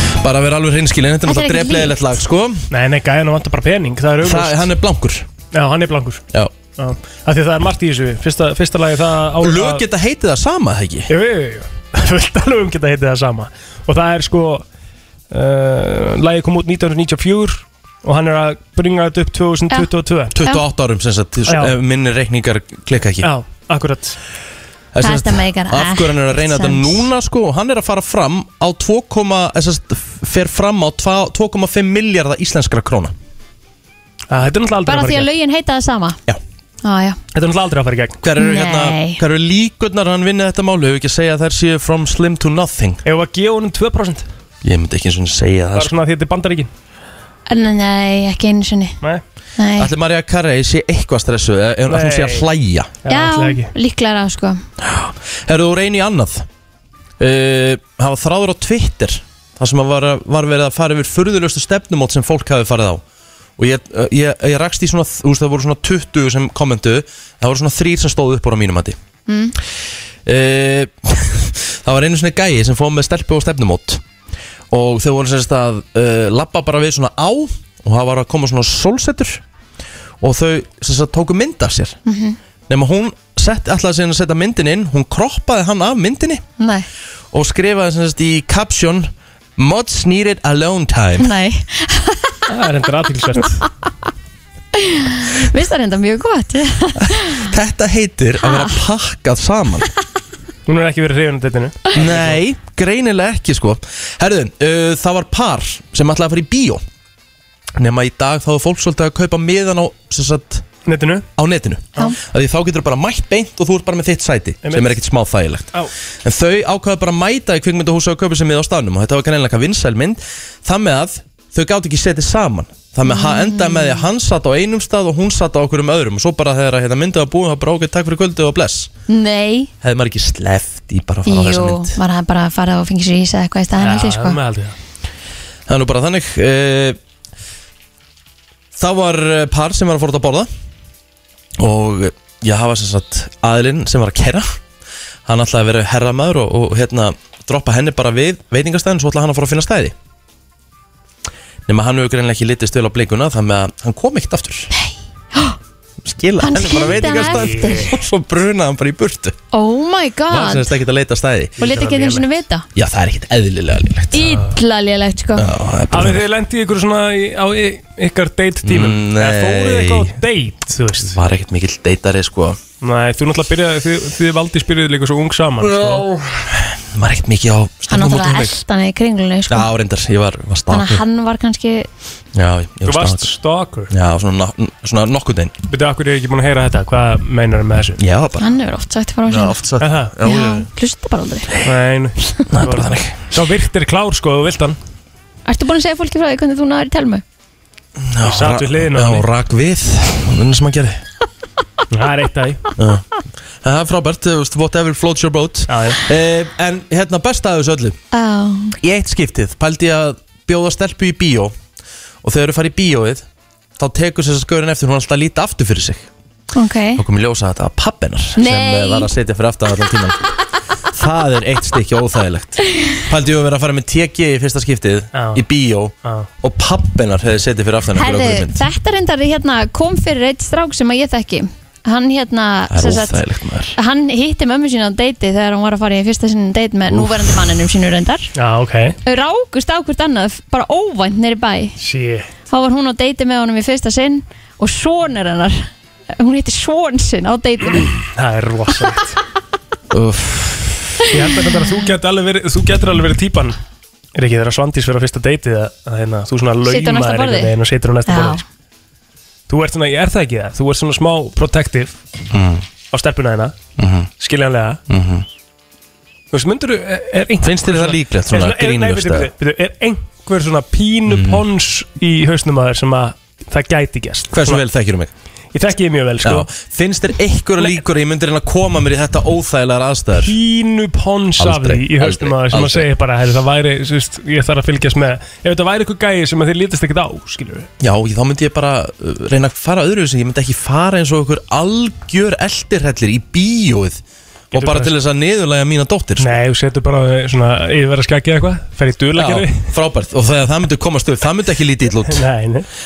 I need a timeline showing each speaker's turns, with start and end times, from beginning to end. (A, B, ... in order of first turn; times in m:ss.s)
0:00.2-0:02.7 A
0:01.3-0:02.0 B
0:02.7-0:04.7 C
0:04.2-0:05.3 A
0:05.5-0:06.2 C
0:06.8-0:09.8 C
0:09.4-0:11.1 A
0:11.1-0:14.6 C
0:15.3-0:20.4 C
0:20.3-0:23.3 A
0:21.5-0:21.7 C
0:23.2-0:24.2 C
0:24.9-0:33.2 A
0:25.0-0:27.1 B
0:34.3-0:35.3 C
0:34.9-0:36.2 B
0:36.8-0:37.2 B
0:37.3-0:38.2 C
0:38.2-0:43.0 A
0:38.4-0:39.2 B
0:43.0-0:44.3 C
0:44.6-0:45.9 A
0:45.8-0:46.7 C
0:47.5-0:49.0 B
0:49.6-0:49.9 B
0:49.8-0:52.9 A
0:51.9-0:52.5 C
0:53.0-0:53.7 C
0:53.1-0:54.6 B
0:54.8-0:56.5 A
0:57.2-1:03.0 A
1:03.6-1:09.0 A
1:09.3-1:09.6 B
1:10.3-1:14.0 A
1:14.7-1:19.4 A
1:20.2-1:22.0 A
1:22.1-1:22.4 B
1:22.7-1:26.4 A
1:26.6-1:26.9 B
1:27.3-1:31.3 A
1:31.2-1:32.4 B
1:32.5-1:33.6 C
1:34.8-1:37.5 B
1:37.0-1:39.9 A
1:38.4-1:38.8 B
1:40.7-1:42.4 C
1:41.9-1:46.8 A
1:47.8-1:50.6 A
1:50.8-1:51.2 C
1:51.4-2:08.9 A
1:54.6-1:55.0 C
2:03.1-2:04.1 B
2:09.1-2:09.7 B
2:09.8-2:12.0 A
2:11.3-2:14.4 B
2:13.8-2:14.8 C
2:15.7-2:17.0 A
2:18.8-2:20.5 A
2:21.6-2:24.6 A
2:25.3-2:30.0 A
2:31.7-2:34.7 A
2:34.7-2:35.6 B
2:36.0-2:39.4 A
2:36.4-2:37.9 B
2:37.0-2:37.9 C
2:39.5-2:40.8 B
2:40.3-2:41.6 A
2:41.6-2:42.2 C
2:41.6-2:42.7 B
2:42.8-2:44.4 A
2:44.1-2:45.5 B
2:45.4-2:46.2 A
2:45.9-2:51.2 C
2:48.6-2:50.2 A
2:51.0-2:52.6 A
2:52.8-2:56.1 C
2:55.6-2:58.6 A
2:57.9-2:59.7 B
2:59.5-3:01.0 A
3:00.7-3:01.9 B
3:02.3-3:03.3 A
3:02.9-3:03.9 C
3:03.9-3:05.5 A
3:05.7-3:08.0 C
3:08.0-3:08.5 A
3:08.4-3:09.6 B
3:09.3-3:10.7 A
3:09.8-3:10.2 C
3:10.2-3:11.6 B
3:11.6-3:14.8 C
3:12.5-3:13.2 A
3:15.4-3:17.2 B
3:18.0-3:21.0 A
3:18.2-3:19.3 C
3:21.9-3:22.6 C
3:22.8-3:28.0 A
3:25.7-3:26.0 C
3:28.1-3:28.8 B
3:28.8-3:31.6 A
3:32.2-3:33.2 A
3:33.8-3:36.1 A
3:36.5-3:37.0 B
3:37.0-3:40.2 A
3:38.4-3:39.1 B
3:40.9-3:48.6 A
3:45.1-3:45.4 C
3:48.0-3:53.2 B
3:52.7-3:53.8 A
3:53.8-3:58.3 B
3:56.9-3:57.3 A
3:58.4-3:59.0 C
3:59.0-4:01.8 B
4:01.8-4:02.3 C
4:02.5-4:07.9 B
4:08.0-4:09.2 C
4:09.9-4:11.0 A
4:11.1-4:13.6 C
4:14.2-4:18.4 C
4:16.6-4:17.5 B
4:18.1-4:18.4 B
4:19.5-4:22.0 C
4:22.3-4:22.6 A
4:22.9-4:23.6 C
4:23.8-4:24.1 A
4:24.2-4:24.8 C
4:24.9-4:25.3 A
4:26.3-4:34.6 C
4:27.4-4:29.3 A
4:31.1-4:31.4 A
4:34.3-4:35.1 A
4:35.5-4:36.5 C
4:36.2-4:40.4 A
4:40.2-4:47.7 C
4:41.4-4:42.9 A
4:47.8-4:54.0 A
4:54.5-4:55.0 C
4:54.5-4:56.4 A
4:56.2-4:59.7 C
4:59.2-5:02.3 A
5:02.1-5:02.7 C